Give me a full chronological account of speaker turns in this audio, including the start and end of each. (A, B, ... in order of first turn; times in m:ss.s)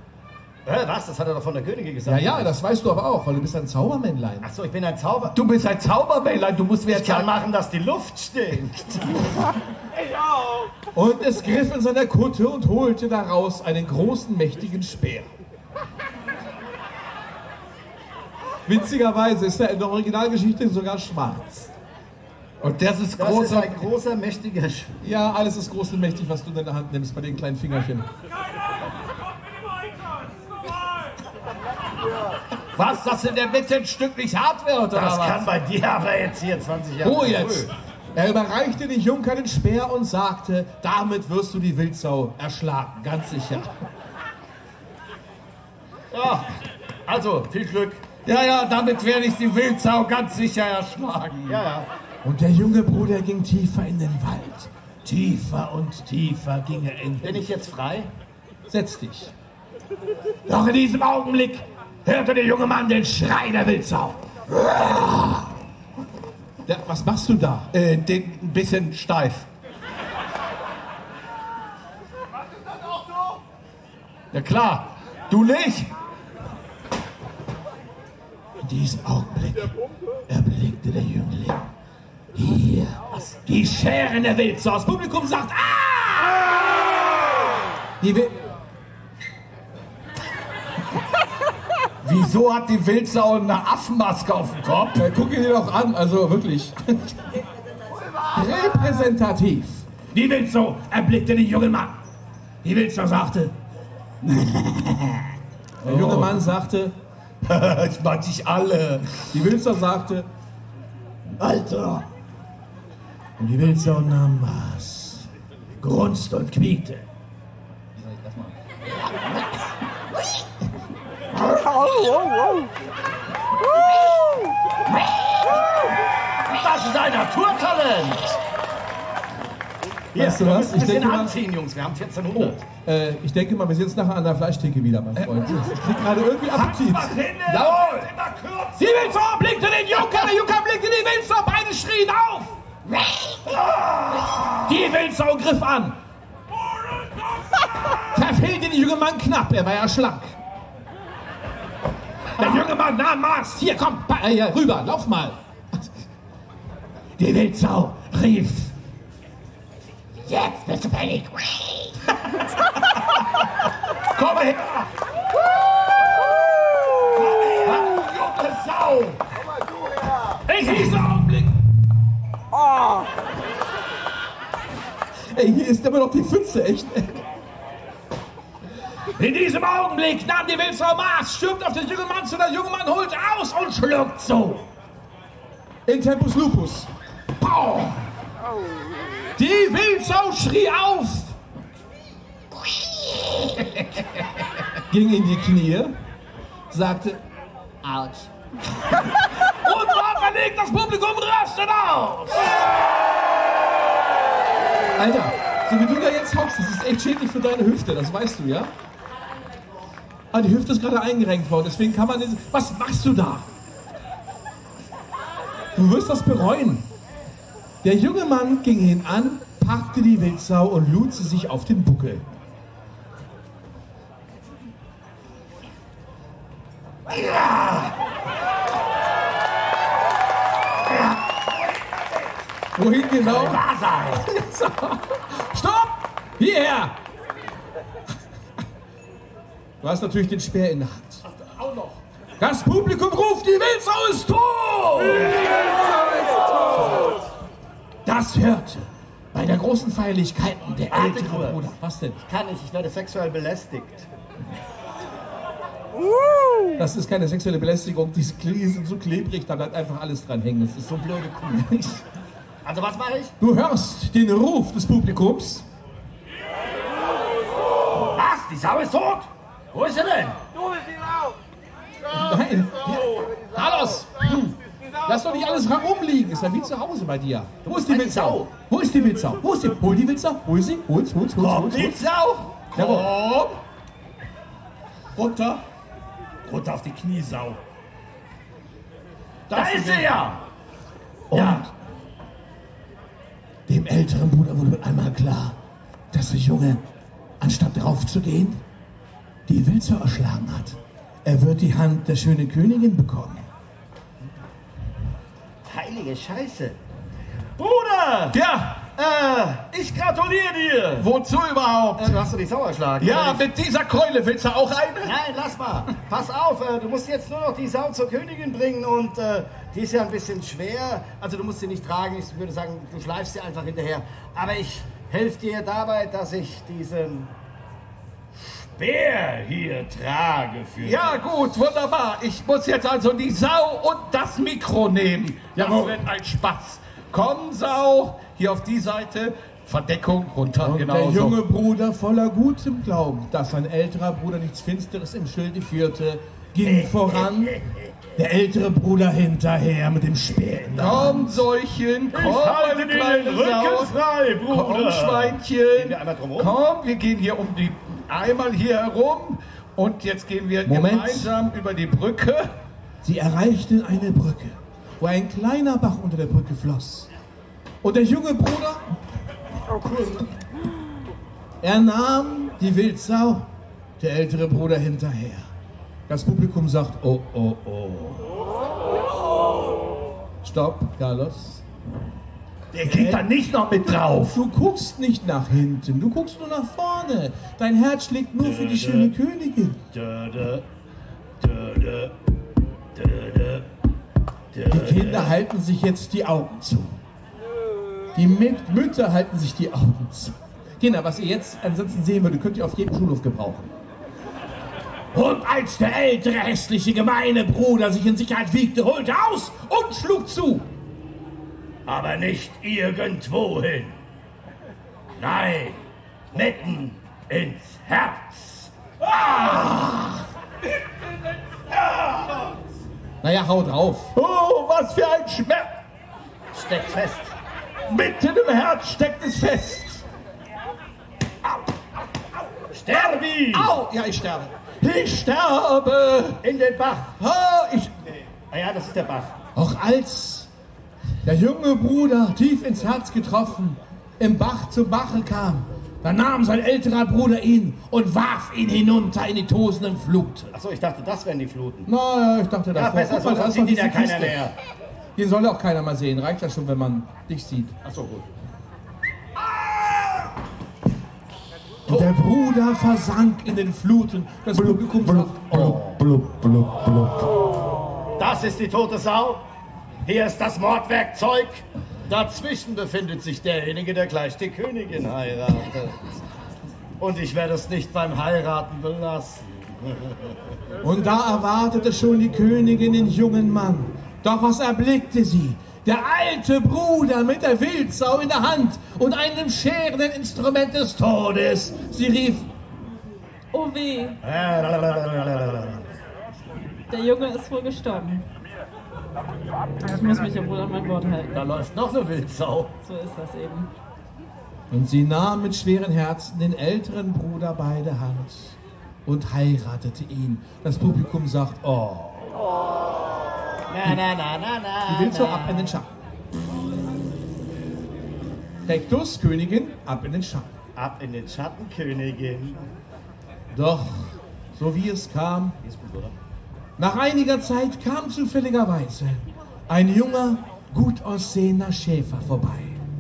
0:00.6-0:02.5 A
0:02.1-0:04.5 B
0:04.4-0:05.4 A
0:05.3-0:07.3 C
0:06.9-0:09.5 A
0:10.9-0:15.3 B
0:18.7-0:21.7 B
0:22.6-0:23.9 C
0:23.1-0:24.9 A
0:25.0-0:28.1 B
0:32.8-0:35.5 C
0:34.9-0:37.7 A
0:37.0-0:43.7 B
0:46.1-0:46.5 A
0:47.1-0:48.0 A
0:48.2-0:51.6 C
0:51.5-0:51.9 A
0:52.2-0:57.5 B
0:57.2-0:58.1 A
0:58.7-0:59.3 B
1:00.5-1:05.5 B
1:06.7-1:07.7 B
1:07.7-1:09.5 C
1:14.3-1:15.9 C
1:18.6-1:19.7 B
1:20.3-1:21.7 B
1:22.3-1:26.5 B
1:28.0-1:28.4 B
1:32.0-1:35.0 C
1:35.0-1:37.3 B
1:38.3-1:42.0 B
1:42.6-1:43.5 B
1:45.8-1:46.5 C
1:45.8-1:46.9 B
1:47.4-1:49.4 C
1:49.3-1:50.3 B
1:51.4-1:52.0 C
1:53.4-1:55.3 B
1:55.8-1:57.0 B
2:06.5-2:08.4 A
2:10.1-2:12.6 A
2:10.2-2:11.4 B
2:12.3-2:17.8 B
2:15.2-2:19.2 C
2:17.5-2:18.1 A
2:18.8-2:22.6 B
2:23.5-2:24.5 C
2:24.6-2:26.0 B
2:28.1-2:30.4 B
2:32.4-2:35.4 B
2:37.2-2:38.7 B
2:40.3-2:42.0 B
2:44.2-2:44.9 C
2:47.2-2:49.2 C
2:50.5-2:51.6 B
2:55.3-2:57.2 B
2:59.2-3:04.7 B
3:05.9-3:08.1 B
3:09.4-3:11.4 B
3:14.9-3:15.9 B
3:16.7-3:17.2 B
3:17.8-3:18.3 A
3:19.4-3:22.6 B
3:25.0-3:28.7 B
3:30.3-3:33.5 B
3:35.8-3:36.8 B
3:37.8-3:42.2 B
3:47.1-3:47.9 A
3:52.8-3:53.6 B
3:53.2-3:54.2 A
3:54.2-3:57.0 B
3:59.8-4:01.2 B
4:01.3-4:02.0 C
4:02.4-4:05.4 B
4:08.1-4:12.2 B
4:10.9-4:11.6 A
4:12.2-4:14.1 A
4:16.8-4:22.0 B
4:21.2-4:21.6 A
4:22.6-4:23.3 A
4:23.4-4:25.7 B
4:28.1-4:30.4 A
4:32.1-4:34.5 B
4:35.1-4:42.0 B
4:37.6-4:38.5 A
4:41.4-4:43.6 C
4:42.8-4:43.1 B
4:42.8-4:43.0 A
4:45.2-4:45.6 C
4:46.4-4:47.6 C
4:49.5-4:50.1 C
4:49.5-4:50.4 A
4:51.3-4:51.7 B
4:51.3-4:51.6 A
4:51.3-4:51.6 C
4:53.7-4:55.6 B
4:56.1-4:56.8 B
4:57.4-4:58.6 B
4:59.5-5:03.5 B
5:05.6-5:06.8 A
5:07.6-5:08.4 A
5:08.3-5:08.8 C
5:09.0-5:11.1 A
5:11.0-5:12.2 C
5:12.0-5:13.5 A
5:13.0-5:15.1 C
5:15.0-5:27.3 A
5:28.4-5:31.2 A
5:30.8-5:41.4 C
5:35.6-5:36.0 A
5:40.6-5:47.6 B
5:47.1-5:47.6 A
5:48.2-5:51.4 B
5:50.8-5:53.9 C
5:52.1-5:56.6 A
5:54.5-6:02.5 C
6:00.6-6:01.3 B
6:03.0-6:07.1 B
6:07.8-6:09.0 B
6:11.6-6:13.5 B
6:14.0-6:15.5 B
6:16.1-6:18.3 B
6:20.4-6:21.6 B
6:22.7-6:24.4 C
6:22.8-6:23.2 B
6:24.3-6:29.8 B
6:28.4-6:29.1 A
6:29.9-6:30.6 A
6:31.4-6:32.2 A
6:33.0-6:33.7 A
6:34.5-6:35.4 A
6:34.7-6:37.0 B
6:38.2-6:43.7 B
6:45.1-6:50.7 B
6:51.9-6:54.0 A
6:55.2-6:55.8 A
6:56.3-6:58.7 A
6:59.2-6:59.9 C
7:03.2-7:04.1 B
7:04.2-7:05.7 C
7:06.5-7:07.3 A
7:07.9-7:10.0 C
7:12.7-7:13.8 A
7:12.9-7:16.4 C
7:16.4-7:17.1 A
7:17.2-7:17.9 B
7:18.5-7:19.4 A
7:19.6-7:20.5 B
7:21.2-7:30.5 B
7:30.5-7:31.9 A
7:31.9-7:34.4 B
7:32.7-7:34.5 A
7:35.2-7:37.8 B
7:37.8-7:38.3 A
7:41.9-7:47.1 B
7:44.7-7:46.8 C
7:45.5-7:46.0 A
7:48.2-7:49.5 A
7:50.0-7:56.1 A
7:57.0-8:00.4 A
8:00.8-8:12.5 B
8:13.5-8:14.2 D
8:14.2-8:15.8 A
8:16.9-8:18.2 D
8:19.8-8:21.4 D
8:21.3-8:22.7 A
8:22.8-8:23.7 D
8:24.7-8:32.4 B
8:33.7-8:35.8 A
8:34.9-8:35.9 B
8:38.7-8:40.6 B
8:40.8-8:42.7 A
8:43.5-8:45.6 B
8:45.6-8:46.1 A
8:46.8-8:52.8 B